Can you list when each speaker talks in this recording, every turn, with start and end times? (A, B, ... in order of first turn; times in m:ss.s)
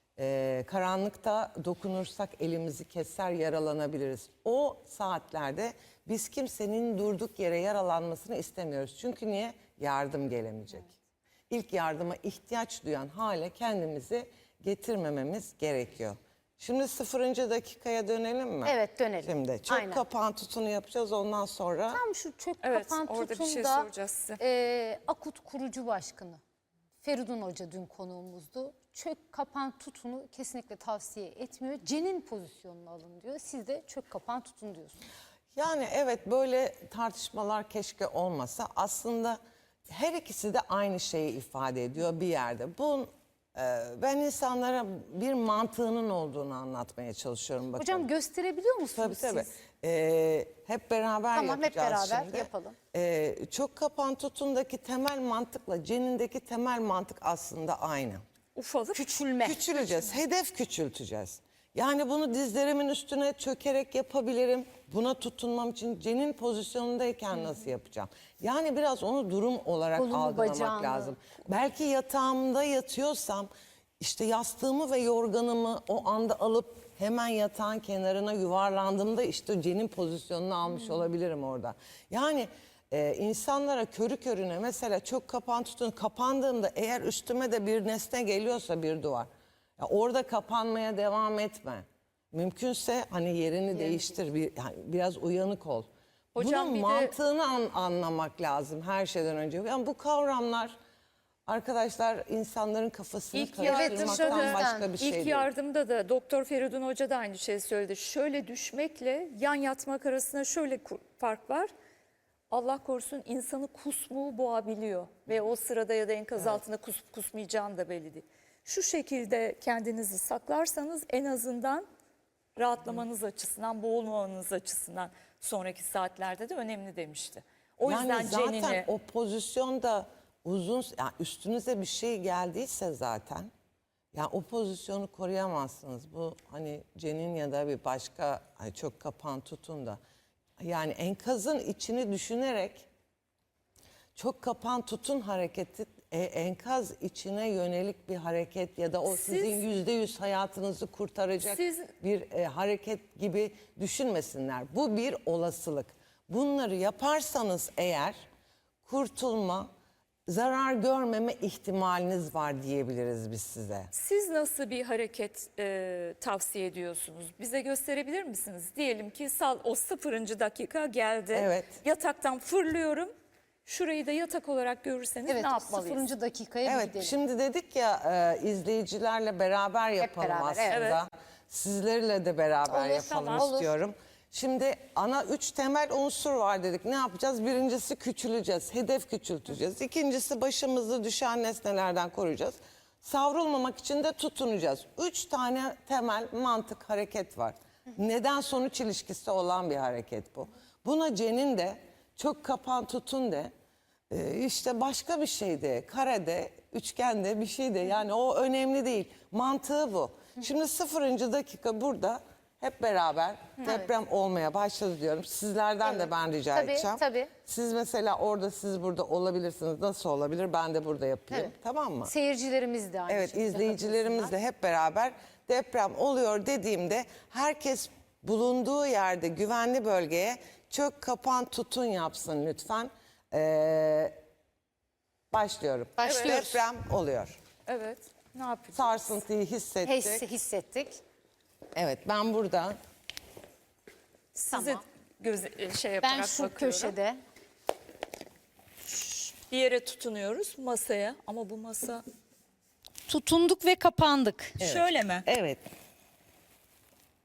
0:00.2-0:10.9 A
0:11.5-0:22.0 A
0:18.6-0:20.0 B
0:21.9-0:26.4 B
0:22.6-0:24.4 C
0:27.0-0:35.0 B
0:35.6-0:48.1 A
0:47.8-0:49.5 B
0:48.9-0:58.2 A
0:51.3-0:52.8 B
0:58.6-0:59.0 C
0:58.9-0:59.7 B
0:59.4-1:40.8 A
1:10.0-1:11.2 B
1:33.8-1:34.1 B
1:36.4-1:37.1 C
1:41.5-1:45.5 A
1:43.3-1:51.7 C
1:43.6-1:44.9 B
1:52.5-2:01.9 C
2:02.6-2:08.9 C
2:07.8-2:13.5 A
2:14.1-2:20.0 A
2:20.6-2:22.9 A
2:24.2-2:38.2 A
2:29.1-2:29.6 C
2:31.4-2:31.9 C
2:38.8-2:39.7 A
2:40.3-2:43.9 A
2:43.9-2:53.1 C
2:51.3-2:51.8 A
2:53.6-2:56.1 C
2:55.3-2:57.2 B
2:56.6-3:23.5 A
3:00.0-3:00.9 B
3:00.7-3:01.0 C
3:02.7-3:03.5 C
3:02.9-3:03.7 B
3:24.1-3:42.1 A
3:33.6-3:33.9 B
3:35.8-3:37.3 B
3:42.0-3:44.3 B
3:43.1-3:54.2 A
3:55.3-3:57.4 A
3:56.0-3:56.6 B
3:56.0-3:56.5 C
3:57.7-3:59.2 C
3:58.7-4:00.2 A
3:59.8-4:01.0 B
4:01.8-4:02.8 A
4:04.4-4:07.0 C
4:04.5-4:04.8 B
4:06.0-4:07.2 B
4:08.9-4:12.0 C
4:13.1-4:14.6 B
4:14.6-4:15.3 C
4:14.6-4:15.6 A